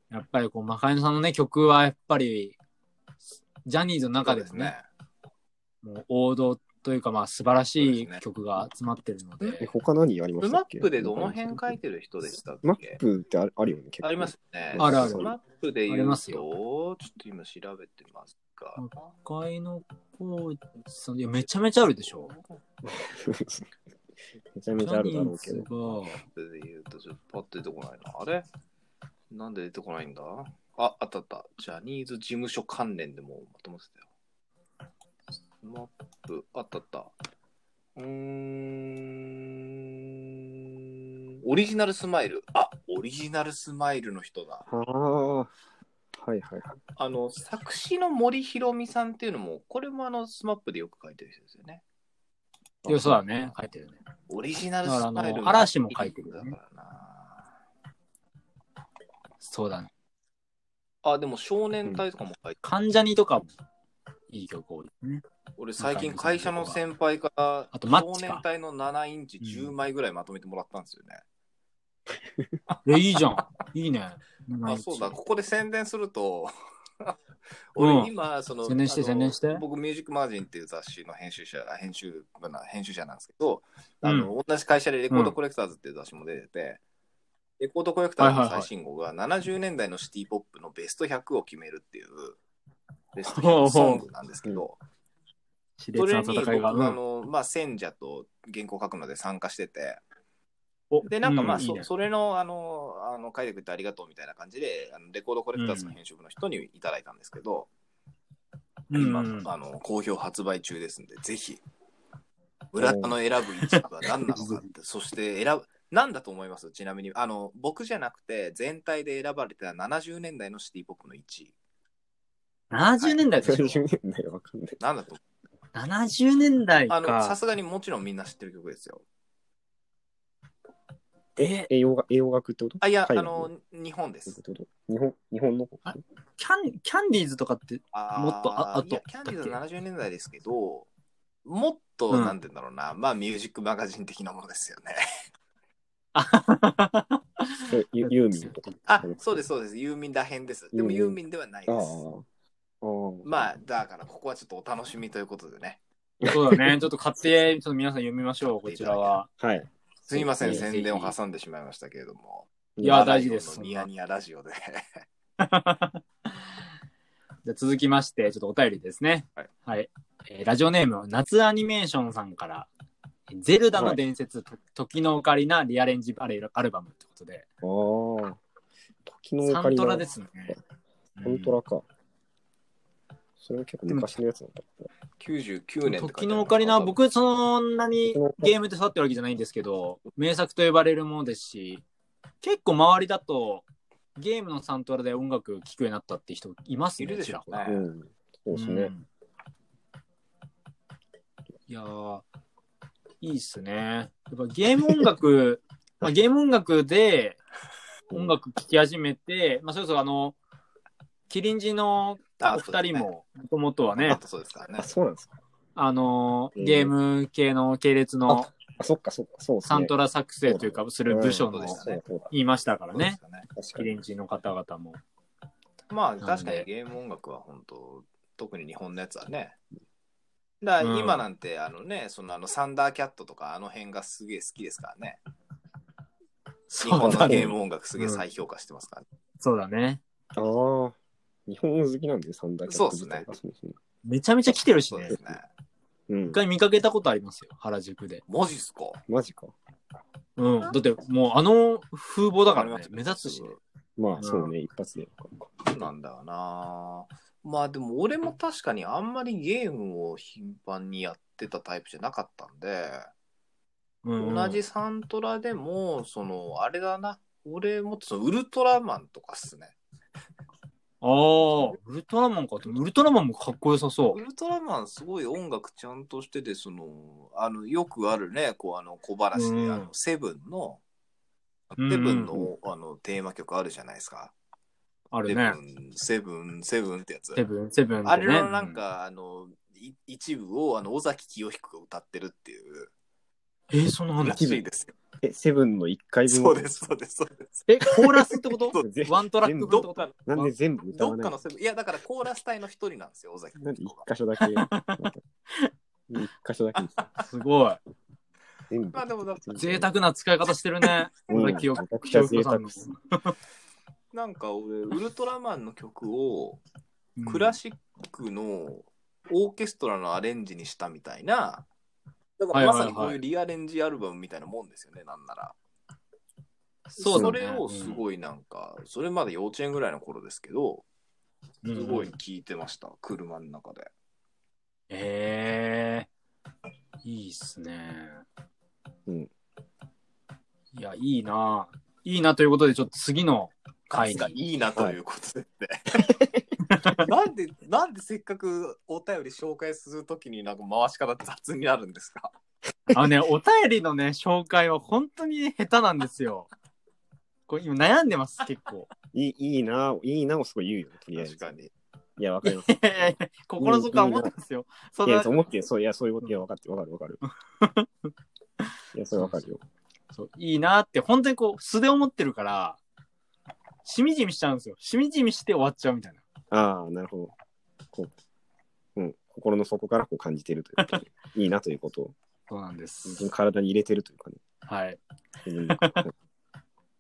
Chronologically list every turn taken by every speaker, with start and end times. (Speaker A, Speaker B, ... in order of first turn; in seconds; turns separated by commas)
Speaker A: 0.1-2.6, Speaker A: 3.6-4.8, Speaker B: 4.2-4.8, Speaker A: 5.8-9.7, Speaker B: 7.8-8.2, Speaker C: 9.6-11.7, Speaker B: 10.4-13.0, Speaker C: 12.6-15.4, Speaker B: 14.0-18.8, Speaker A: 14.8-15.3, Speaker A: 15.9-16.4, Speaker A: 18.8-22.3, Speaker B: 22.1-22.6, Speaker C: 22.8-23.7, Speaker C: 24.5-25.9, Speaker A: 24.8-26.2, Speaker B: 26.3-28.5, Speaker B: 29.3-34.0, Speaker B: 35.6-37.1, Speaker B: 38.0-40.5, Speaker B: 41.4-44.7, Speaker C: 44.7-45.5, Speaker C: 46.1-46.8, Speaker B: 47.0-51.8, Speaker C: 52.8-53.2, Speaker A: 52.9-54.0, Speaker B: 54.3-57.5, Speaker A: 54.9-56.6, Speaker A: 59.4-59.9, Speaker B: 61.0-62.6, Speaker A: 62.6-63.5, Speaker A: 64.3-65.2, Speaker B: 65.6-71.2, Speaker A: 65.8-66.8, Speaker A: 67.7-68.4, Speaker A: 69.4-69.7, Speaker B: 72.7-73.5, Speaker A: 72.9-75.2, Speaker B: 74.7-77.2, Speaker B: 77.7-86.8, Speaker A: 77.8-78.1, Speaker A: 78.7-79.6, Speaker A: 84.0-84.3, Speaker B: 87.6-92.4, Speaker A: 88.2-88.7, Speaker B: 93.1-94.8, Speaker A: 93.2-94.0, Speaker A: 95.8-97.0, Speaker B: 96.0-100.0, Speaker A: 100.9-101.9, Speaker B: 101.1-107.7, Speaker A: 105.6-106.0, Speaker A: 108.9-109.5, Speaker B: 108.9-111.6, Speaker B: 112.7-121.5, Speaker C: 112.8-113.1, Speaker A: 113.6-114.6, Speaker A: 122.7-123.8, Speaker B: 123.0-123.3, Speaker C: 123.4-124.8, Speaker B: 124.8-125.2, Speaker A: 125.8-127.4, Speaker B: 126.9-129.0, Speaker C: 131.4-133.5, Speaker B: 132.8-134.4, Speaker C: 134.3-136.0, Speaker A: 135.9-139.6, Speaker B: 137.9-140.9, Speaker B: 141.4-145.0, Speaker A: 142.1-142.4, Speaker A: 146.2-148.7, Speaker C: 147.7-149.4, Speaker B: 148.9-152.0, Speaker C: 150.7-152.2, Speaker C: 152.8-153.5, Speaker B: 153.2-155.8, Speaker C: 156.2-156.9, Speaker A: 156.2-159.3, Speaker B: 158.6-159.2, Speaker C: 159.4-160.7, Speaker B: 160.1-165.0, Speaker A: 160.2-161.2, Speaker C: 162.8-163.1, Speaker A: 162.8-163.9, Speaker A: 165.4-166.0, Speaker A: 167.4-172.7, Speaker A: 173.3-177.4, Speaker C: 173.7-174.0, Speaker C: 177.6-178.4, Speaker C: 179.1-180.6, Speaker A: 179.5-180.6, Speaker A: 181.2-181.6, Speaker C: 181.2-181.8, Speaker C: 183.4-184.9, Speaker A: 183.9-184.1, Speaker B: 185.2-187.0, Speaker A: 185.8-191.8, Speaker C: 188.0-188.6, Speaker A: 192.4-197.7, Speaker B: 197.0-197.9, Speaker C: 197.7-198.9, Speaker A: 198.5-199.1, Speaker A: 201.7-202.2, Speaker A: 203.2-207.4, Speaker C: 208.1-208.4, Speaker A: 208.1-210.4, Speaker A: 211.3-214.2, Speaker B: 212.4-213.1, Speaker B: 214.0-214.9, Speaker C: 214.8-215.3, Speaker A: 215.8-218.5, Speaker C: 216.6-216.9, Speaker C: 218.3-219.9, Speaker A: 219.7-223.2, Speaker C: 220.5-222.3, Speaker B: 221.4-222.1, Speaker B: 222.9-223.5, Speaker C: 223.5-223.9, Speaker A: 223.8-225.0, Speaker B: 225.9-229.6, Speaker A: 226.2-226.7, Speaker B: 230.6-235.2, Speaker A: 230.8-231.3, Speaker A: 236.7-238.2, Speaker B: 236.8-239.0, Speaker C: 237.0-237.6, Speaker A: 239.4-240.0, Speaker C: 240.3-243.8, Speaker B: 242.7-243.3, Speaker A: 244.1-245.2, Speaker B: 244.9-245.5, Speaker C: 246.1-246.4, Speaker A: 246.3-248.2, Speaker B: 248.3-249.0, Speaker C: 249.1-249.5, Speaker A: 250.4-253.6, Speaker B: 252.5-253.6, Speaker C: 254.0-255.9, Speaker A: 254.2-254.5, Speaker B: 255.6-263.1, Speaker A: 264.0-264.6, Speaker B: 264.2-269.8, Speaker A: 271.0-274.2, Speaker B: 274.1-280.8, Speaker A: 279.3-279.9, Speaker B: 281.7-284.3, Speaker A: 281.8-282.4, Speaker A: 285.1-285.6, Speaker B: 285.3-287.4, Speaker A: 287.4-288.8, Speaker B: 288.1-292.9, Speaker A: 293.7-294.4, Speaker B: 294.2-294.9, Speaker C: 294.3-294.6, Speaker C: 295.2-296.9, Speaker B: 296.3-298.8, Speaker A: 297.7-300.5, Speaker C: 298.8-301.4, Speaker B: 299.6-300.2, Speaker B: 300.9-304.1, Speaker C: 303.6-305.2, Speaker A: 304.4-305.7, Speaker C: 306.1-306.9, Speaker B: 306.8-307.2, Speaker A: 307.2-307.8, Speaker C: 308.7-309.9, Speaker B: 308.9-309.6, Speaker A: 309.6-313.3, Speaker C: 311.3-312.8, Speaker B: 314.1-316.6, Speaker A: 317.2-317.6, Speaker B: 317.2-321.7, Speaker B: 322.4-325.6, Speaker A: 322.5-323.2, Speaker A: 326.9-328.0, Speaker B: 327.0-330.9, Speaker A: 331.6-332.1, Speaker B: 331.7-333.9, Speaker A: 334.9-336.1, Speaker A: 337.0-338.2, Speaker A: 340.7-344.3, Speaker B: 343.9-346.1, Speaker A: 346.6-347.0, Speaker B: 346.9-352.3, Speaker A: 352.9-356.5, Speaker A: 357.5-358.9, Speaker C: 359.1-361.5, Speaker B: 361.1-361.7, Speaker C: 362.2-364.3, Speaker A: 362.4-365.4, Speaker C: 365.0-367.2, Speaker A: 367.6-367.9, Speaker C: 368.9-369.6, Speaker A: 369.1-369.5, Speaker A: 370.1-372.8, Speaker A: 373.9-376.2, Speaker C: 376.5-377.3, Speaker C: 379.0-382.1, Speaker A: 382.5-383.3, Speaker C: 383.1-384.4, Speaker A: 384.7-385.0, Speaker C: 385.4-386.1, Speaker A: 385.7-386.0